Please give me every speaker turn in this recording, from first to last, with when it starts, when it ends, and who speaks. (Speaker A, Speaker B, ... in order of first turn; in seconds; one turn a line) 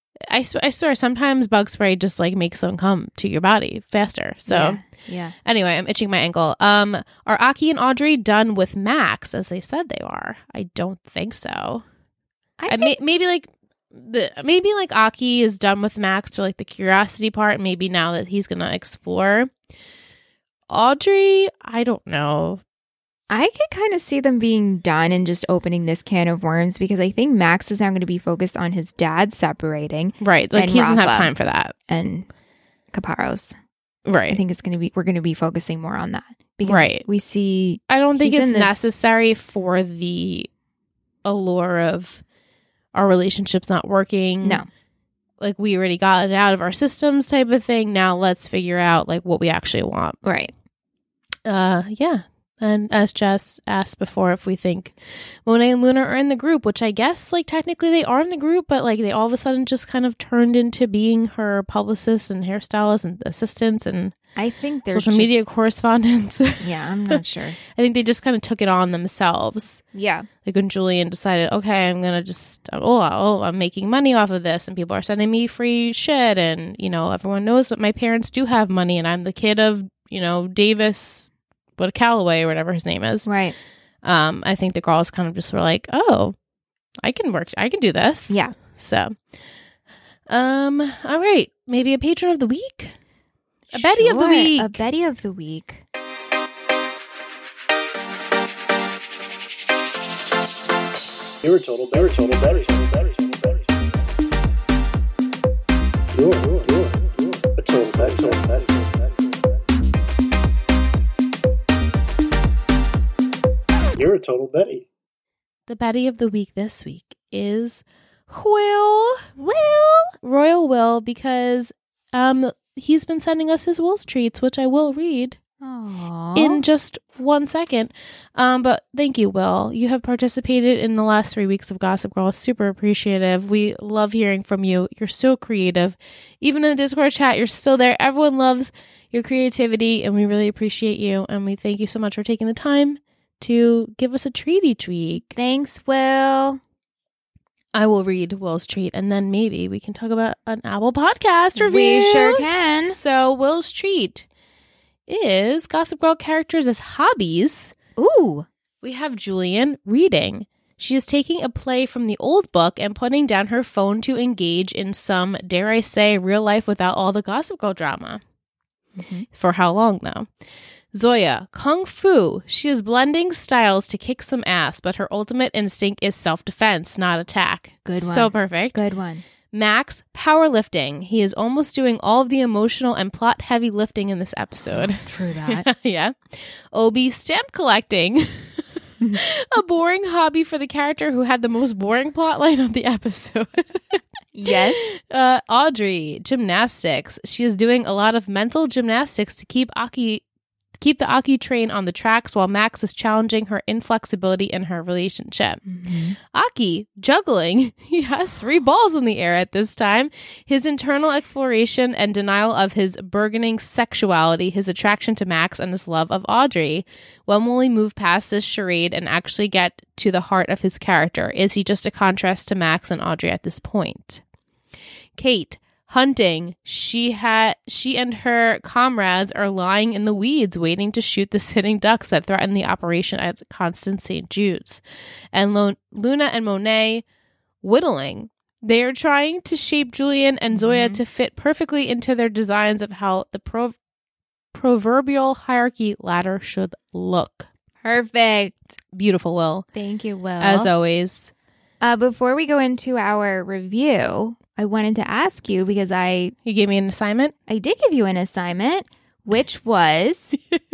Speaker A: 0.3-4.8
Speaker B: 4.5-5.3
Speaker A: 5.4-11.8
Speaker B: 12.6-12.9
Speaker A: 12.7-19.5
Speaker A: 20.7-22.6
Speaker B: 23.3-31.3
Speaker A: 30.2-31.7
Speaker B: 31.9-32.3
Speaker B: 32.9-33.5
Speaker A: 34.0-34.4
Speaker B: 34.3-38.7
Speaker A: 36.6-37.0
Speaker A: 37.9-40.5
Speaker A: 41.2-42.2
Speaker A: 42.9-44.6
Speaker B: 44.4-44.7
Speaker A: 45.4-50.2
Speaker B: 50.2-50.5
Speaker A: 51.4-64.1
Speaker B: 64.3-65.8
Speaker A: 64.9-69.8
Speaker B: 66.6-67.6
Speaker B: 69.9-70.3
Speaker A: 70.4-83.3
Speaker B: 83.2-83.5
Speaker A: 84.0-86.3
Speaker A: 87.0-89.2
Speaker B: 88.3-88.5
Speaker A: 90.3-92.9
Speaker B: 93.7-95.8
Speaker A: 93.7-94.8
Speaker C: 101.4-103.8
Speaker C: 106.1-109.6
Speaker C: 114.0-114.9
Speaker A: 115.7-119.3
Speaker B: 119.4-120.1
Speaker A: 120.2-125.4
Speaker B: 125.6-126.6
Speaker A: 126.3-145.3
Speaker B: 145.3-146.6
Speaker A: 147.7-154.2
Speaker B: 151.6-153.0
Speaker A: 155.1-157.7
Speaker B: 158.0-158.5
Speaker A: 158.8-168.2
Speaker B: 169.0-169.3
Speaker A: 169.3-170.3
Speaker A: 170.9-178.8
Speaker B: 177.8-179.2
Speaker A: 179.5-200.2
Speaker B: 184.7-185.6
Speaker B: 194.3-194.9
Speaker A: 200.8-205.6
Speaker B: 205.6-206.2
Speaker A: 206.2-224.2
Speaker A: 225.2-234.8
Speaker A: 235.3-237.0
Speaker A: 237.6-243.8
Speaker B: 240.5-241.0
Speaker A: 244.5-247.5
Speaker B: 247.8-248.8
Speaker A: 248.9-249.7
Speaker B: 249.7-250.7
Speaker A: 250.4-251.3
Speaker B: 251.8-256.3
Speaker A: 256.4-257.3
Speaker B: 257.5-260.4